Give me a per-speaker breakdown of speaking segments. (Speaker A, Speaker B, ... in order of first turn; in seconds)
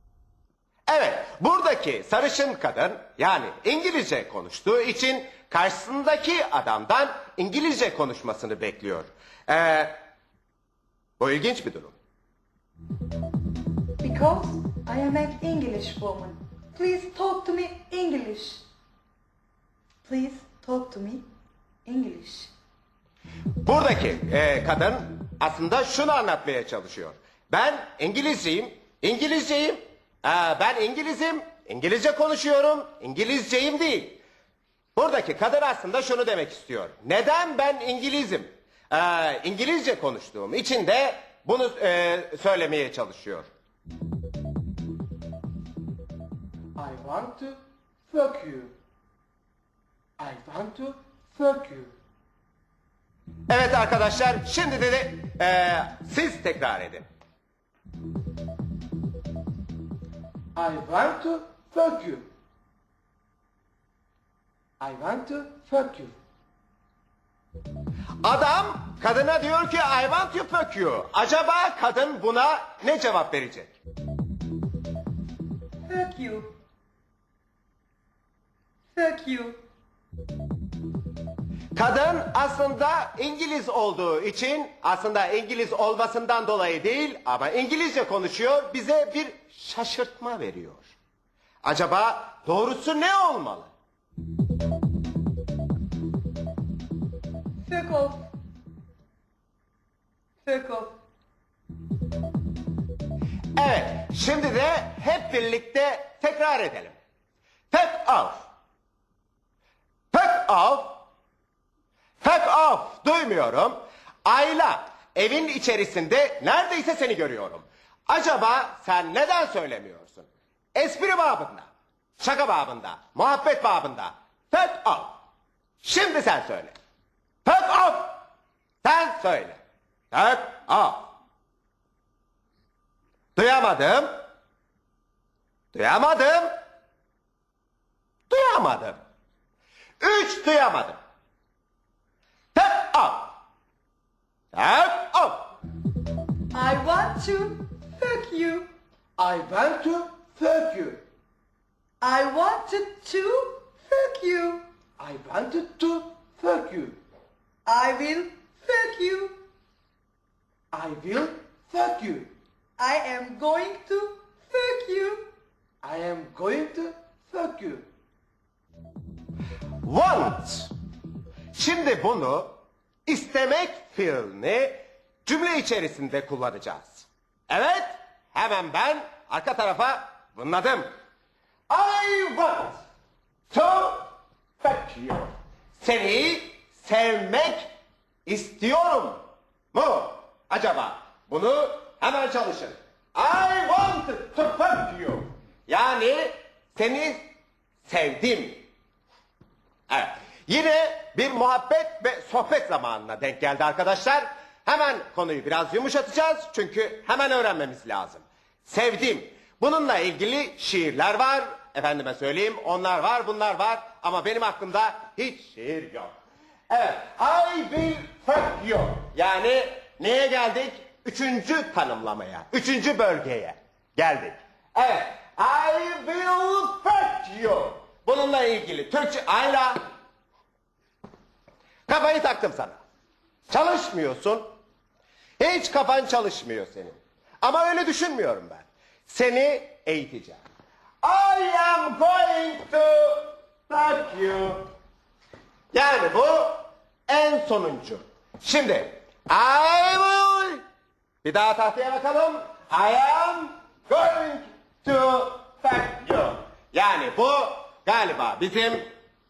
Speaker A: 0.9-10.0, 11.2-11.9, 23.6-34.2, 35.0-43.5, 53.5-57.1, 68.2-73.7, 81.7-90.9, 91.6-93.7, 103.6-107.0, 107.7-108.5, 110.1-111.0, 112.2-121.7, 122.2-125.2, 125.8-126.7, 127.5-128.3, 128.8-129.6, 130.1-131.1, 133.4-134.2, 135.7-136.6, 138.3-139.0, 140.0-141.0, 142.5-143.4, 144.5-145.6, 169.8-170.7, 171.5-180.9, 181.7-182.8, 183.5-187.7, 188.3-189.2, 189.7-197.2, 197.8-198.7, 199.9-216.1, 216.7-229.9, 231.9-232.8, 233.5-234.6, 235.4-240.4, 241.0-244.7, 245.7-250.6, 251.2-258.9
Speaker B: 14.0-18.7, 20.0-21.3, 21.9-22.5, 75.9-76.5, 78.9-79.6, 97.7-98.3, 100.4-101.0, 146.5-148.7, 152.0-154.7, 157.7-159.4, 162.8-165.3
Speaker C: 46.8-48.7, 50.2-51.9, 60.5-62.3, 64.8-66.1, 149.2-151.0, 155.0-157.0, 160.7-162.3, 165.8-167.9